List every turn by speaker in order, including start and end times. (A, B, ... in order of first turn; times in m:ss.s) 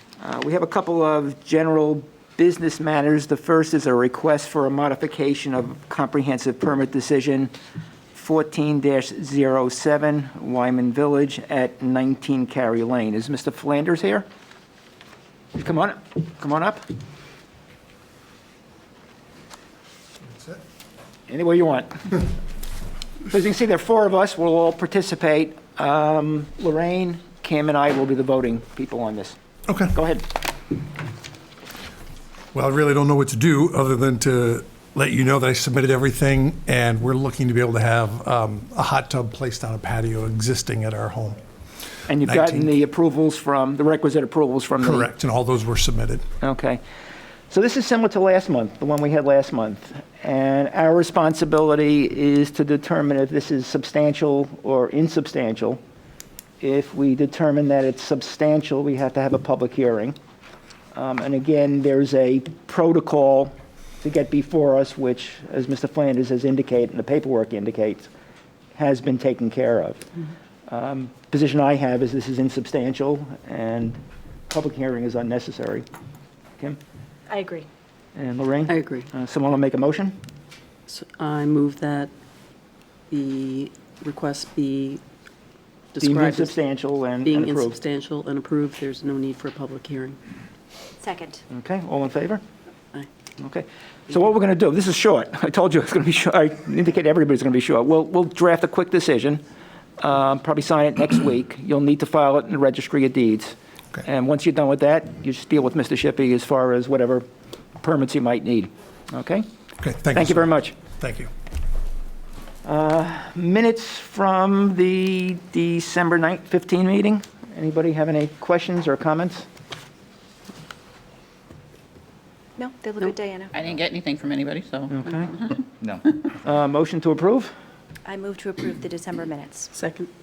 0:00.2-0:07.5 A
0:08.1-0:14.3 A
0:15.6-0:16.8 A
0:20.3-0:20.6 B
0:21.3-0:22.2 A
0:23.3-0:29.4 A
0:29.7-0:29.9 B
0:29.9-0:30.2 A
0:32.5-0:41.4 B
0:42.1-0:45.1 A
0:42.1-0:42.7 B
0:44.8-0:46.2 B
0:46.4-0:46.8 A
0:47.5-0:55.8 A
0:56.6-1:00.2 A
1:00.9-1:08.1 A
1:08.8-1:10.1 A
1:10.7-1:14.0 A
1:14.5-1:15.8 A
1:17.3-1:17.7 C
1:18.2-1:20.2 A
1:18.7-1:19.1 D
1:20.9-1:22.1 D
1:23.1-1:25.0 D
1:25.9-1:26.6 D
1:26.0-1:27.8 A
1:27.2-1:30.2 D
1:31.0-1:31.4 C
1:31.5-1:32.4 A
1:33.4-1:39.4 A
1:40.0-1:47.2 A
1:47.8-1:49.5 A
1:49.8-1:51.3 B
1:50.1-1:50.8 A
1:52.6-1:59.5 A
2:02.6-2:03.5 C
2:03.5-2:06.3 E
2:04.9-2:05.3 A
2:06.4-2:07.5 A
2:08.1-2:09.7 C
2:09.7-2:10.1 D